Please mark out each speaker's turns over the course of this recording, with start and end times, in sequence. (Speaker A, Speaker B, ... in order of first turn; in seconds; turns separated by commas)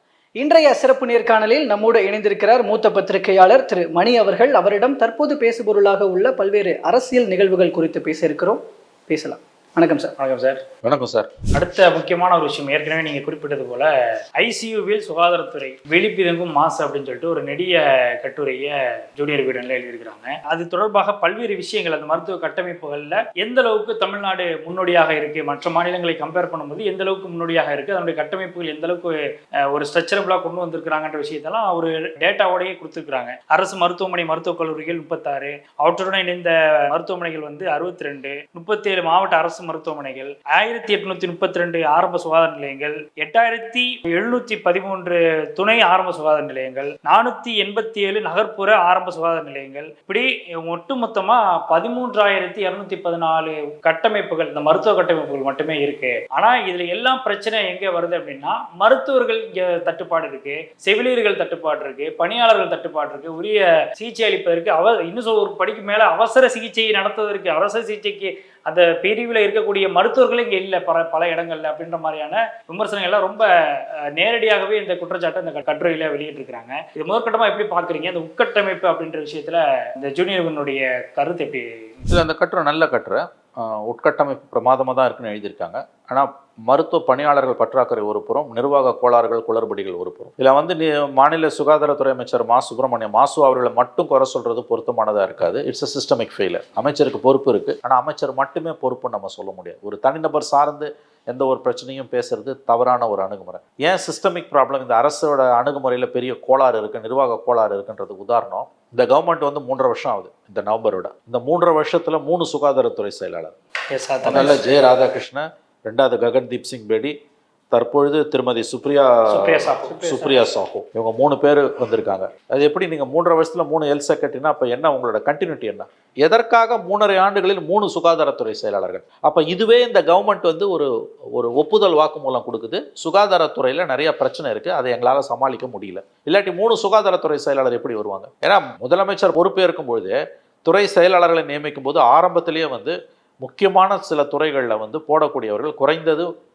Speaker A: 0.4-10.1, Speaker B: 10.2-10.6, Speaker C: 10.8-11.3, Speaker B: 11.5-29.1, Speaker B: 29.7-73.5, Speaker B: 74.2-81.7, Speaker C: 82.1-113.5, Speaker B: 113.9-114.6, Speaker C: 114.2-117.1, Speaker C: 117.7-146.3, Speaker B: 119.3-120.5